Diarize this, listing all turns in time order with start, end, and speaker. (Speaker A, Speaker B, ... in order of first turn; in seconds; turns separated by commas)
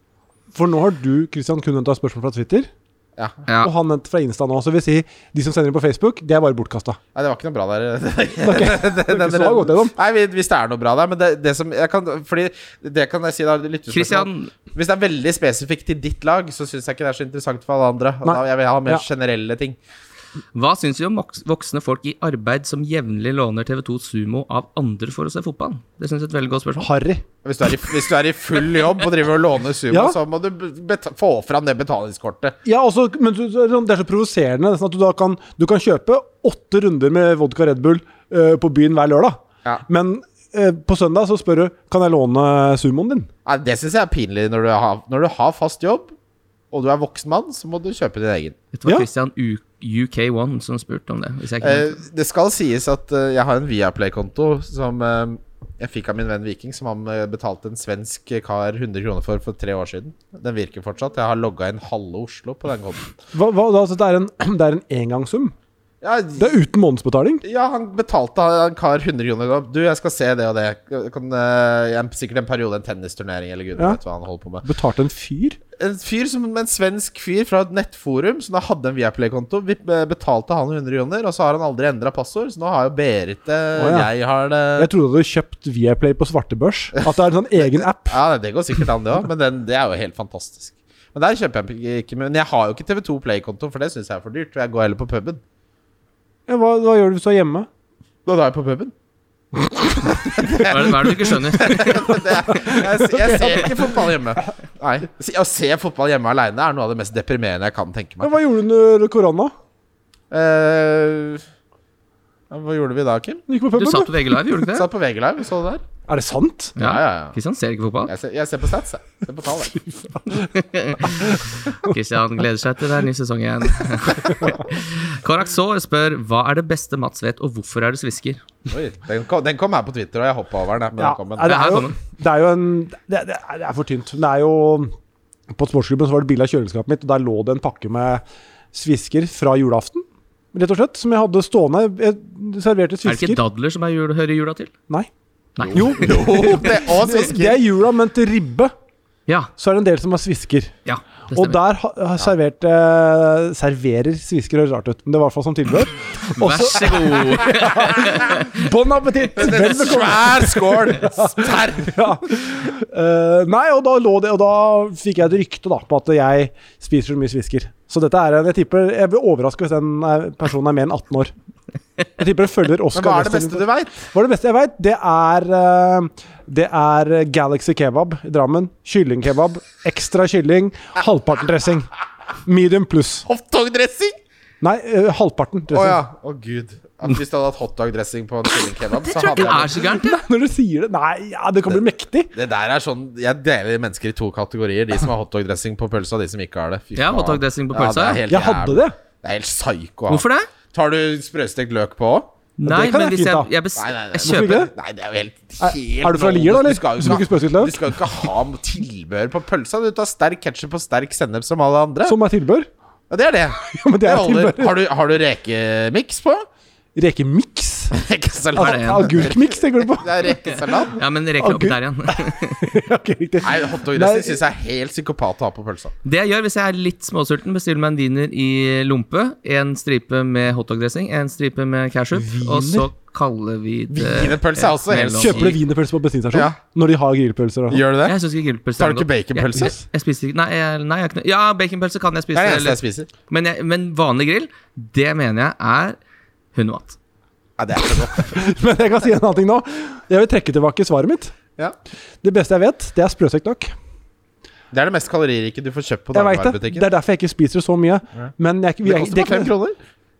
Speaker A: 0.5-2.7, Speaker A: 3.6-7.0, Speaker B: 7.1-19.8, Speaker A: 8.4-9.9, Speaker C: 13.9-14.5, Speaker A: 18.2-19.0, Speaker C: 20.5-26.9, Speaker A: 26.8-27.2, Speaker B: 27.4-32.5, Speaker A: 29.9-30.2, Speaker A: 32.6-43.3, Speaker B: 43.5-46.1, Speaker B: 46.7-48.5, Speaker C: 48.7-52.0, Speaker B: 51.6-63.1, Speaker A: 63.3-65.5, Speaker B: 66.0-66.5, Speaker A: 66.4-67.4, Speaker B: 67.4-74.6, Speaker A: 74.6-75.6, Speaker B: 75.8-84.9, Speaker A: 83.8-84.1, Speaker A: 84.8-88.2, Speaker B: 87.6-95.4, Speaker A: 96.5-97.7, Speaker B: 98.2-98.9, Speaker B: 100.1-108.3, Speaker C: 100.6-102.1, Speaker A: 102.5-104.1, Speaker A: 108.2-109.5, Speaker B: 110.3-111.4, Speaker B: 112.5-113.4, Speaker A: 113.5-114.4, Speaker C: 113.7-114.9, Speaker B: 114.7-115.8, Speaker A: 116.1-116.7, Speaker B: 116.8-117.3, Speaker C: 116.8-118.1, Speaker B: 118.1-119.8, Speaker A: 119.7-120.4, Speaker C: 120.3-128.4, Speaker B: 128.7-131.8, Speaker A: 131.0-134.9, Speaker C: 131.4-131.9, Speaker A: 135.5-138.2, Speaker A: 138.7-143.4, Speaker C: 143.0-144.7, Speaker C: 145.6-146.7, Speaker A: 145.7-148.7, Speaker B: 145.7-147.6, Speaker A: 149.6-150.7, Speaker C: 150.8-151.6, Speaker A: 151.3-171.3, Speaker C: 156.3-158.6, Speaker B: 159.3-162.1, Speaker A: 172.2-181.9, Speaker B: 172.9-174.1, Speaker A: 182.4-183.2, Speaker B: 183.2-184.2, Speaker A: 184.6-186.0, Speaker B: 185.7-189.8, Speaker C: 189.0-190.2, Speaker A: 189.4-192.3, Speaker B: 192.3-202.3, Speaker C: 196.9-198.2, Speaker A: 198.3-198.9, Speaker C: 200.1-200.5, Speaker C: 202.6-204.7, Speaker A: 202.6-203.5, Speaker B: 203.8-212.2, Speaker A: 204.2-204.7, Speaker A: 205.6-207.8, Speaker A: 212.0-212.7, Speaker B: 213.1-216.4, Speaker A: 213.6-214.7, Speaker A: 216.9-217.9, Speaker B: 217.9-221.0, Speaker A: 218.5-220.2, Speaker C: 218.6-219.1, Speaker C: 220.5-222.7, Speaker A: 221.4-224.4, Speaker B: 223.4-225.9, Speaker C: 226.0-235.6, Speaker A: 232.1-232.9, Speaker B: 233.9-235.6, Speaker A: 235.2-237.8, Speaker B: 236.3-236.6, Speaker B: 237.7-238.2, Speaker C: 238.1-246.0, Speaker B: 238.8-239.8, Speaker B: 242.3-243.1, Speaker C: 246.5-247.0, Speaker B: 247.6-248.4, Speaker A: 248.3-251.3, Speaker A: 252.2-253.7, Speaker B: 254.7-256.9, Speaker A: 256.1-259.5, Speaker B: 258.8-259.8